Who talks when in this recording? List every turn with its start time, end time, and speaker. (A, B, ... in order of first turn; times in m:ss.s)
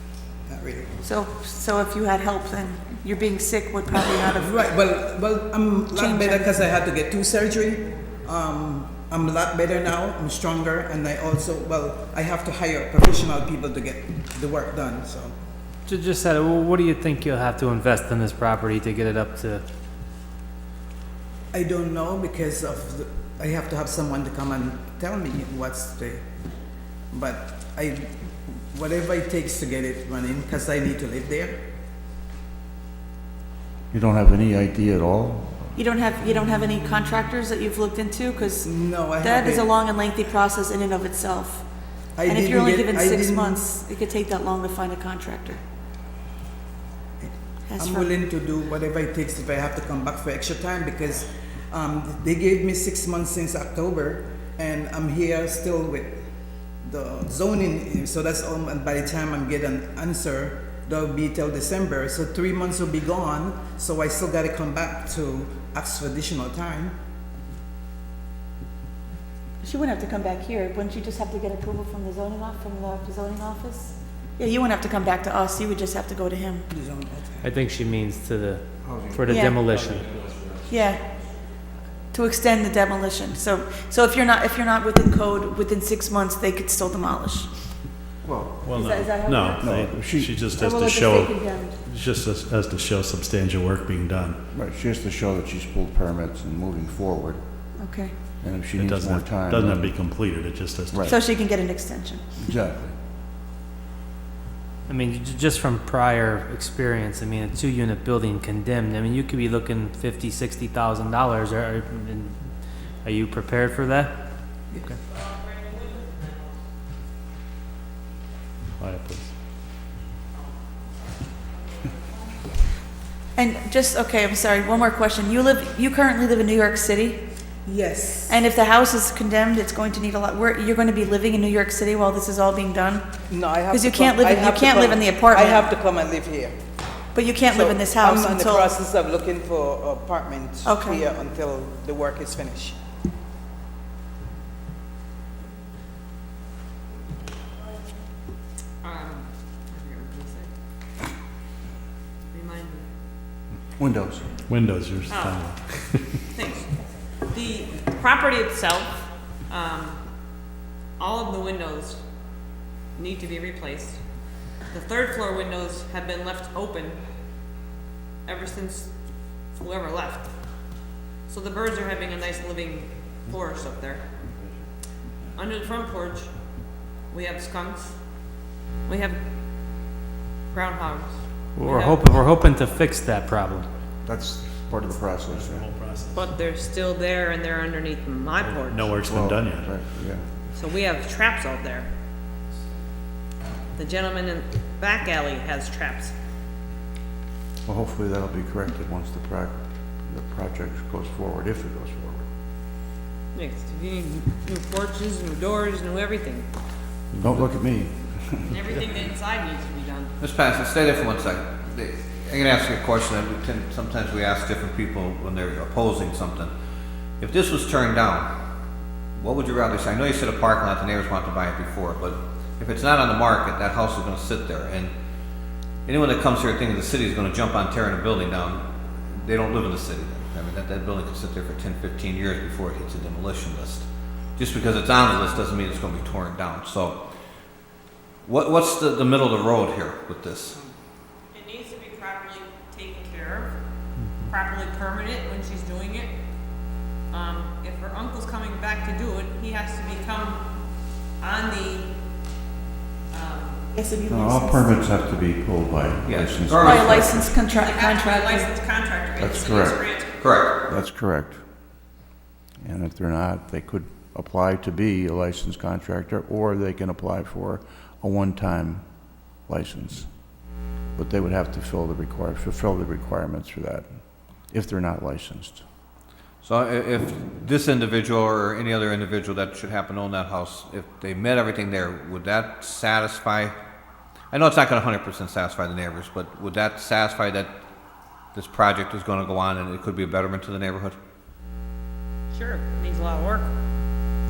0:00.5-0:01.0 A
0:01.0-0:04.6 B
0:04.3-0:15.3 A
0:05.9-0:06.5 B
0:15.8-0:19.6 C
0:21.5-0:26.2 A
0:27.1-0:28.1 A
0:28.7-0:31.6 A
0:33.9-0:35.8 D
0:35.8-0:41.7 B
0:38.6-0:39.7 A
0:42.2-0:43.7 A
0:42.2-0:45.6 B
0:47.2-0:56.1 A
0:47.7-0:48.1 B
0:56.8-1:06.9 A
1:09.6-1:16.6 B
1:16.7-1:17.5 A
1:17.4-1:20.1 C
1:18.8-1:19.2 D
1:19.3-1:19.6 B
1:20.7-1:21.0 B
1:22.1-1:27.5 B
1:28.2-1:28.7 D
1:28.6-1:34.4 E
1:28.7-1:29.6 B
1:29.6-1:30.5 D
1:30.5-1:31.8 B
1:34.5-1:37.4 D
1:37.8-1:38.1 B
1:38.4-1:40.0 D
1:38.7-1:41.2 E
1:40.9-1:41.1 D
1:41.0-1:42.2 B
1:42.4-1:42.9 D
1:44.9-1:54.1 C
1:55.3-1:56.3 F
1:58.8-1:59.3 E
2:03.4-2:07.2 B
2:07.6-2:08.3 A
2:08.3-2:13.1 B
2:13.3-2:16.6 A
2:13.6-2:15.7 B
2:17.1-2:18.7 B
2:17.4-2:22.8 A
2:20.6-2:21.0 B
2:28.8-2:30.5 F
2:32.3-2:32.8 F
2:33.8-2:34.3 D
2:34.5-2:36.1 E
2:35.1-2:35.5 F
2:36.3-2:36.7 F
2:37.3-2:39.0 F
2:39.5-2:40.0 F
2:41.0-2:42.0 F
2:43.0-2:44.0 F
2:44.7-2:47.0 F
2:48.2-2:48.9 F
2:49.5-2:50.3 F
2:51.3-2:54.0 F
2:55.3-2:56.3 F
2:57.1-2:58.0 F
2:58.8-2:59.2 F
3:00.5-3:02.2 F
3:01.6-3:03.7 C
3:04.0-3:05.7 D
3:05.3-3:06.3 E
3:06.1-3:08.9 F
3:08.4-3:09.8 E
3:09.0-3:10.2 D
3:10.6-3:11.9 F
3:13.8-3:16.1 F
3:17.6-3:22.2 D
3:23.3-3:26.5 F
3:27.1-3:27.4 E
3:27.2-3:28.6 D
3:28.5-3:30.1 F
3:30.2-3:36.5 G
3:37.2-3:38.3 G
3:39.2-3:44.9 G
3:45.8-3:48.6 G
3:49.2-3:57.0 G
3:58.2-4:00.6 G
4:01.3-4:03.5 F
4:04.2-4:06.1 F
4:07.1-4:10.4 F
4:11.2-4:11.9 F
4:13.1-4:13.6 F
4:13.7-4:14.8 B
4:14.1-4:17.3 D
4:16.0-4:17.1 G
4:16.6-4:18.5 B
4:17.5-4:20.2 F
4:19.2-4:20.0 D
4:20.2-4:20.6 G
4:20.6-4:21.4 D
4:22.6-4:28.8 D
4:29.5-4:30.1 D
4:31.0-4:33.9 D
4:34.5-4:35.6 D
4:36.4-4:43.5 G
4:44.3-4:47.5 G
4:48.3-4:51.0 G
4:52.3-4:53.5 F